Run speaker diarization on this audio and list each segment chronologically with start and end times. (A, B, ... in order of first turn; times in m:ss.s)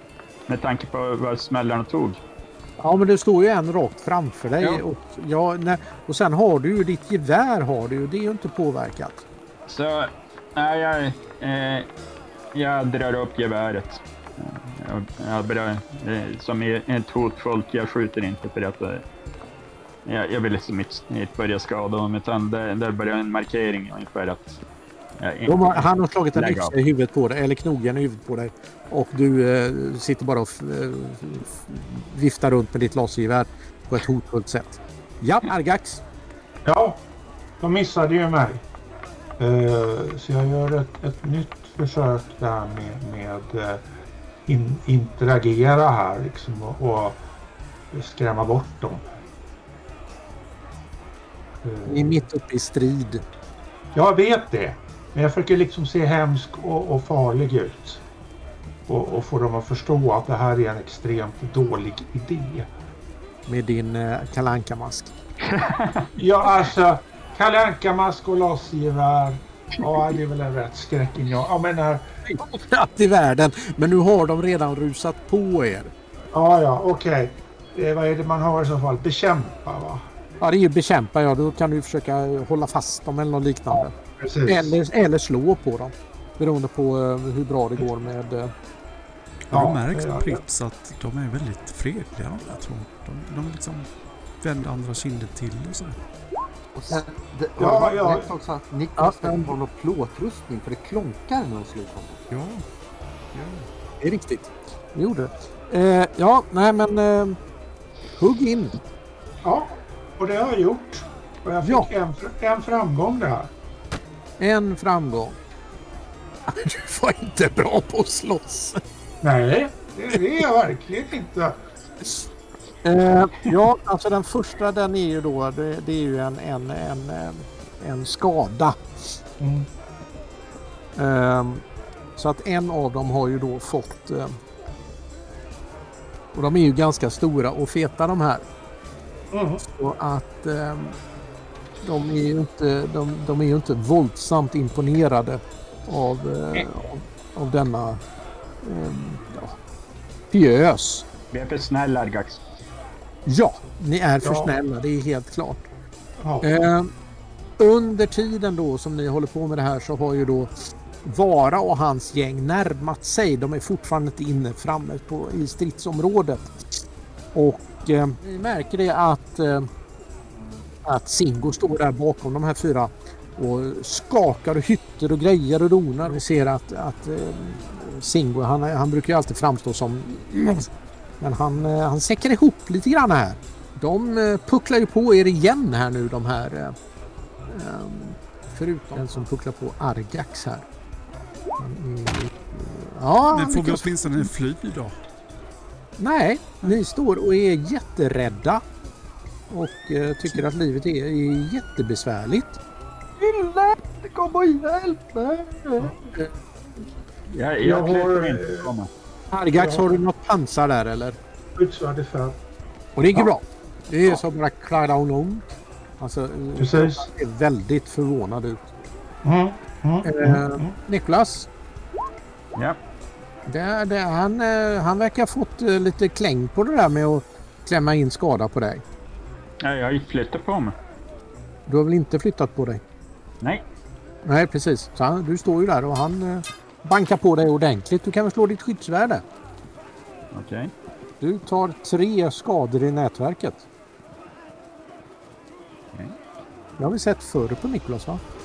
0:00.5-0:02.2 A
0:02.8-0:09.2 B
0:09.7-0:11.9 A
0:12.6-0:19.0 A
0:20.1-0:24.6 A
0:25.2-0:26.7 A
0:25.5-0:36.0 B
0:36.6-0:37.0 C
0:37.6-0:38.6 C
0:39.4-0:43.8 C
0:44.5-0:47.2 C
0:47.9-0:49.2 C
0:51.6-0:52.2 C
0:51.9-0:53.2 B
0:53.9-0:58.0 C
0:58.9-1:02.7 C
1:03.5-1:05.2 B
1:05.4-1:06.7 A
1:06.2-1:12.0 C
1:12.2-1:15.9 B
1:16.3-1:20.0 C
1:20.4-1:24.0 B
1:23.8-1:24.8 C
1:24.5-1:28.5 B
1:29.5-1:33.9 D
1:29.5-1:30.4 C
1:34.4-1:36.0 D
1:36.8-1:42.2 E
1:37.6-1:38.3 C
1:39.0-1:39.5 B
1:42.3-1:42.6 D
1:43.3-1:43.7 D
1:44.0-1:47.4 B
1:48.2-1:48.8 B
1:49.4-1:53.5 C
1:51.6-1:51.9 B
1:54.4-1:55.4 B
1:56.5-1:58.8 B
1:59.2-2:01.6 C
2:00.1-2:00.4 B
2:02.8-2:09.2 B
2:09.4-2:09.7 C
2:11.0-2:11.6 B
2:12.2-2:14.4 B
2:16.3-2:18.4 B
2:19.3-2:19.6 C
2:19.6-2:21.0 B
2:21.8-2:28.0 B
2:28.6-2:29.6 B
2:30.3-2:31.1 B
2:31.3-2:32.4 A
2:33.3-2:35.7 B
2:34.2-2:34.6 C
2:36.2-2:36.6 C
2:36.4-2:36.9 B
2:37.6-2:46.5 B
2:47.3-2:49.7 B
2:50.8-3:00.7 B
3:01.2-3:06.8 B
3:07.5-3:10.7 B
3:11.6-3:14.3 B
3:13.3-3:15.0 D
3:16.0-3:18.6 B
3:19.5-3:22.6 B
3:23.2-3:26.0 E
3:27.3-3:28.9 A
3:27.6-3:28.7 C
3:29.3-3:31.2 B
3:29.5-3:30.0 C
3:31.6-3:32.4 C
3:33.0-3:38.7 B
3:36.6-3:37.1 C
3:39.2-3:40.7 C
3:40.0-3:41.5 B
3:43.5-3:48.8 B
3:49.6-3:50.8 A
3:51.7-3:52.8 B
3:54.2-3:59.2 B
4:00.3-4:00.7 A
4:01.2-4:03.7 B
4:06.8-4:08.2 B